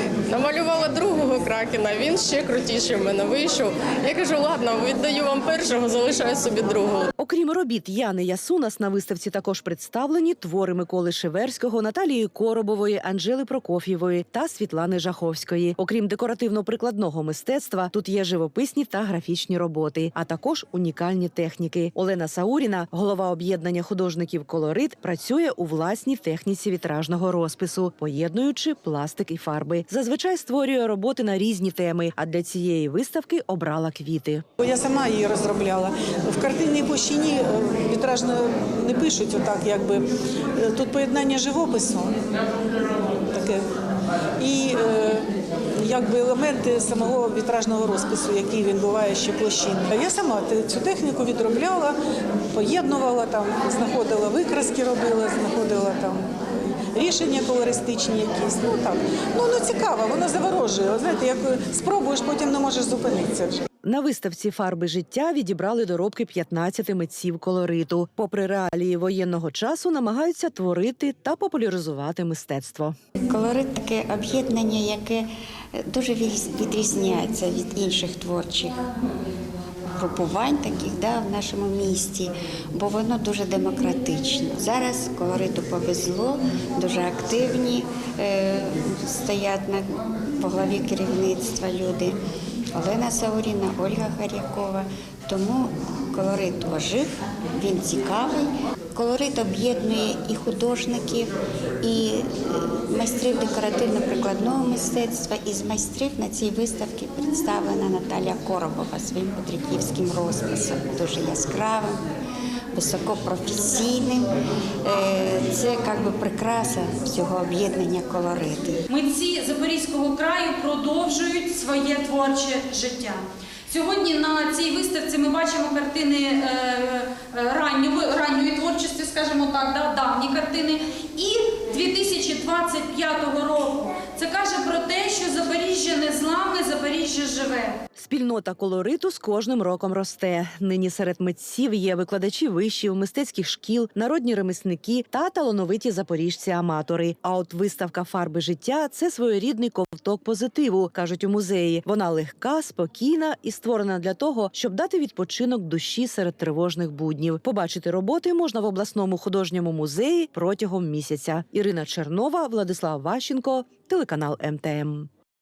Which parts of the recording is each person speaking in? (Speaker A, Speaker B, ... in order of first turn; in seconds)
Speaker A: 0.3-7.1
Speaker B: 7.2-34.5, 63.8-73.0, 137.9-165.1
Speaker C: 34.6-42.2, 43.1-43.6, 44.4-45.2, 45.8-52.0, 52.5-63.6
Speaker D: 73.2-78.8, 80.0-92.2, 92.7-112.0, 112.7-114.3, 114.8-118.8
Speaker E: 118.9-137.8